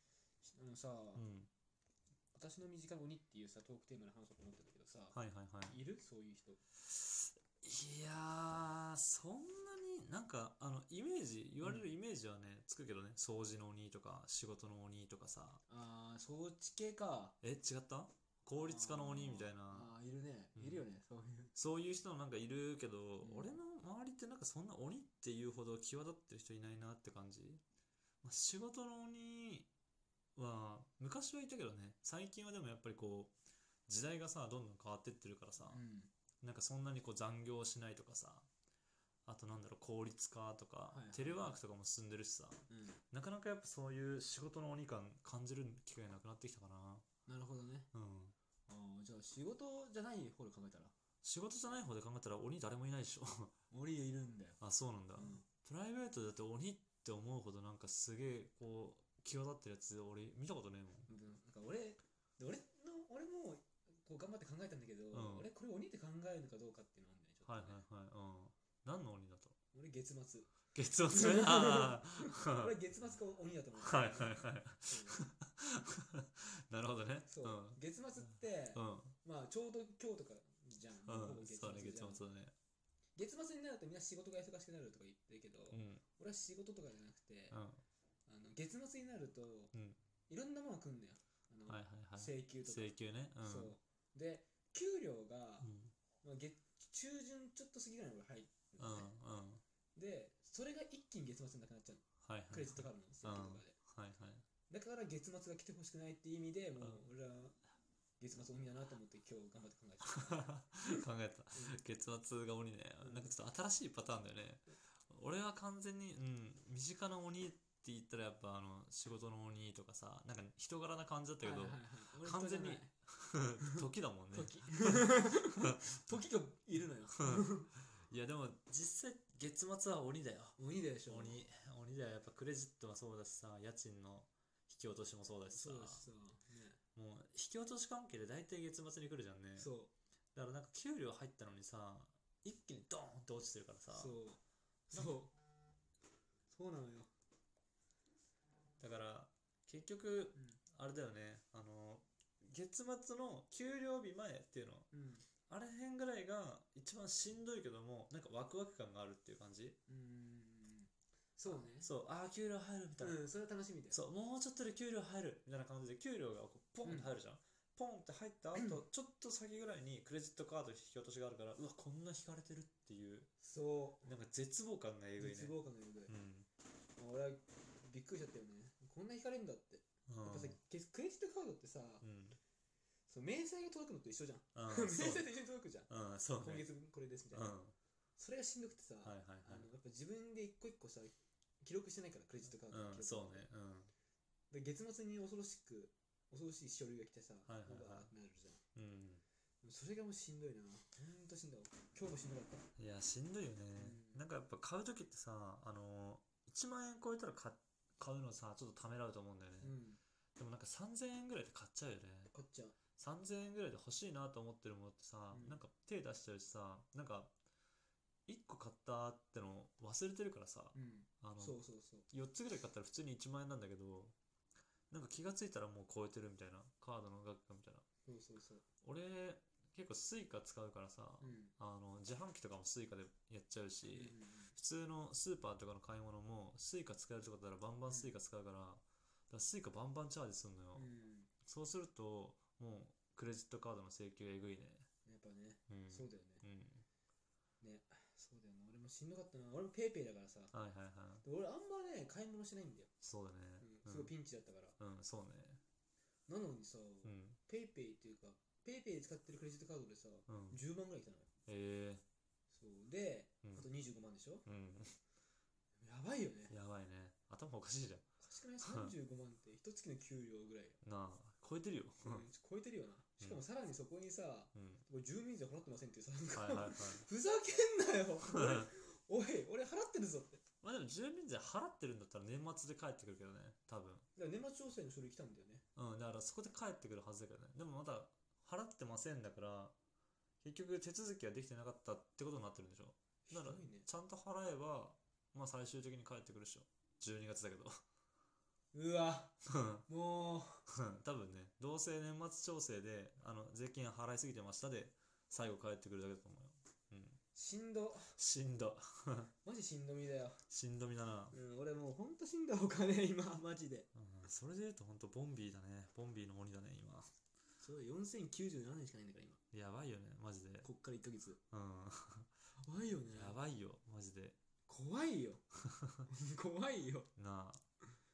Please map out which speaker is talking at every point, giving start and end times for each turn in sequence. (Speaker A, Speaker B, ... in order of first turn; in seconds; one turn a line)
Speaker A: 0.4-1.2
Speaker B: 1.1-1.5
Speaker A: 2.3-6.6
Speaker B: 5.1-5.8
Speaker B: 6.9-15.6
Speaker A: 15.7-17.4
Speaker B: 17.4-19.9
Speaker A: 18.5-21.6
Speaker B: 20.6-20.9
Speaker B: 21.6-27.6
Speaker A: 23.2-23.6
Speaker B: 28.2-29.7
Speaker B: 30.4-33.3
Speaker B: 33.9-35.8
Speaker A: 35.7-36.1
Speaker B: 36.4-38.5
Speaker B: 39.3-47.0
Speaker A: 40.9-41.6
Speaker A: 42.7-43.0
Speaker A: 47.3-47.9
Speaker B: 47.9-48.4
Speaker A: 48.7-50.9
Speaker B: 51.2-53.5
Speaker A: 53.7-54.6
Speaker B: 54.6-61.1
Speaker A: 55.2-55.5
Speaker A: 61.1-67.8
Speaker B: 65.1-65.5
Speaker B: 67.5-69.6
Speaker A: 69.7-70.5
Speaker B: 70.8-72.8
Speaker A: 71.0-75.2
Speaker B: 73.8-77.8
Speaker A: 77.3-82.2
Speaker B: 78.7-79.2
Speaker B: 81.1-82.5
Speaker A: 83.2-87.6
Speaker B: 85.7-86.0
Speaker B: 87.5-87.8
Speaker A: 88.3-89.7
Speaker B: 89.7-90.0
Speaker A: 90.3-99.1
Speaker B: 91.7-93.8
Speaker B: 95.6-96.0
Speaker B: 98.8-99.6
Speaker A: 100.0-103.8
Speaker B: 102.2-104.4
Speaker A: 104.7-107.6
Speaker A: 108.2-111.0
Speaker B: 110.1-125.6
Speaker A: 111.5-111.8
Speaker A: 113.0-113.3
Speaker A: 121.4-122.9
Speaker A: 123.6-127.7
Speaker B: 127.2-136.1
Speaker A: 130.6-131.4
Speaker A: 135.5-136.8
Speaker B: 137.0-139.7
Speaker A: 139.6-139.9
Speaker B: 140.3-144.2
Speaker A: 143.9-145.3
Speaker A: 146.5-147.1
Speaker B: 148.8-154.9
Speaker A: 154.9-155.3
Speaker B: 155.5-159.8
Speaker A: 159.9-161.9
Speaker B: 161.5-163.2
Speaker A: 163.0-164.0
Speaker B: 163.9-173.3
Speaker A: 166.8-167.1
Speaker A: 168.6-168.8
Speaker A: 173.4-174.1
Speaker B: 174.0-175.6
Speaker A: 175.2-176.1
Speaker B: 176.1-176.5
Speaker A: 177.0-182.1
Speaker B: 180.1-180.6
Speaker B: 182.0-182.4
Speaker A: 183.1-187.5
Speaker B: 184.6-185.3
Speaker B: 185.9-186.7
Speaker B: 187.3-187.8
Speaker A: 188.2-193.5
Speaker B: 189.0-189.7
Speaker B: 192.7-193.9
Speaker A: 194.5-198.6
Speaker B: 197.5-198.1
Speaker B: 198.8-199.2
Speaker A: 199.6-202.7
Speaker B: 202.8-209.8
Speaker A: 203.8-204.2
Speaker A: 209.6-210.0
Speaker B: 210.4-212.3
Speaker A: 212.3-212.8
Speaker B: 213.0-217.3
Speaker A: 215.3-215.6
Speaker B: 218.3-224.2
Speaker A: 220.8-222.1
Speaker B: 224.9-227.8
Speaker A: 228.1-228.6
Speaker B: 228.8-240.9
Speaker A: 231.2-231.5
Speaker A: 233.9-234.5
Speaker A: 237.9-238.2
Speaker A: 240.8-241.3
Speaker B: 241.4-244.9
Speaker A: 245.1-246.4
Speaker B: 245.7-246.8
Speaker A: 247.6-250.5
Speaker B: 250.5-251.2
Speaker A: 251.2-252.9
Speaker B: 253.0-254.1
Speaker A: 253.6-254.8
Speaker B: 254.8-255.6
Speaker A: 256.3-261.3
Speaker B: 257.1-257.4
Speaker B: 260.3-260.6
Speaker B: 261.5-262.0
Speaker A: 262.5-264.5
Speaker B: 264.5-265.0
Speaker A: 265.8-266.5
Speaker B: 266.5-268.1
Speaker A: 268.2-270.8
Speaker B: 268.6-268.9
Speaker B: 270.8-272.3
Speaker A: 272.0-280.4
Speaker B: 274.6-274.8
Speaker B: 276.3-277.1
Speaker B: 278.2-278.7
Speaker B: 280.6-284.1
Speaker A: 284.2-285.6
Speaker B: 285.8-289.8
Speaker B: 290.4-297.8
Speaker A: 293.3-293.9
Speaker A: 298.7-300.6
Speaker B: 299.5-299.8
Speaker B: 300.7-307.2
Speaker A: 307.4-308.2
Speaker B: 308.2-309.3
Speaker A: 309.4-310.4
Speaker B: 310.5-311.4
Speaker A: 311.3-313.9
Speaker B: 313.9-317.1
Speaker A: 317.6-319.4
Speaker B: 319.5-320.7
Speaker A: 320.6-321.4
Speaker B: 321.5-322.3
Speaker A: 322.6-323.4
Speaker B: 323.1-324.4
Speaker A: 324.7-325.4
Speaker B: 325.7-326.1
Speaker A: 326.1-327.1
Speaker B: 327.2-327.6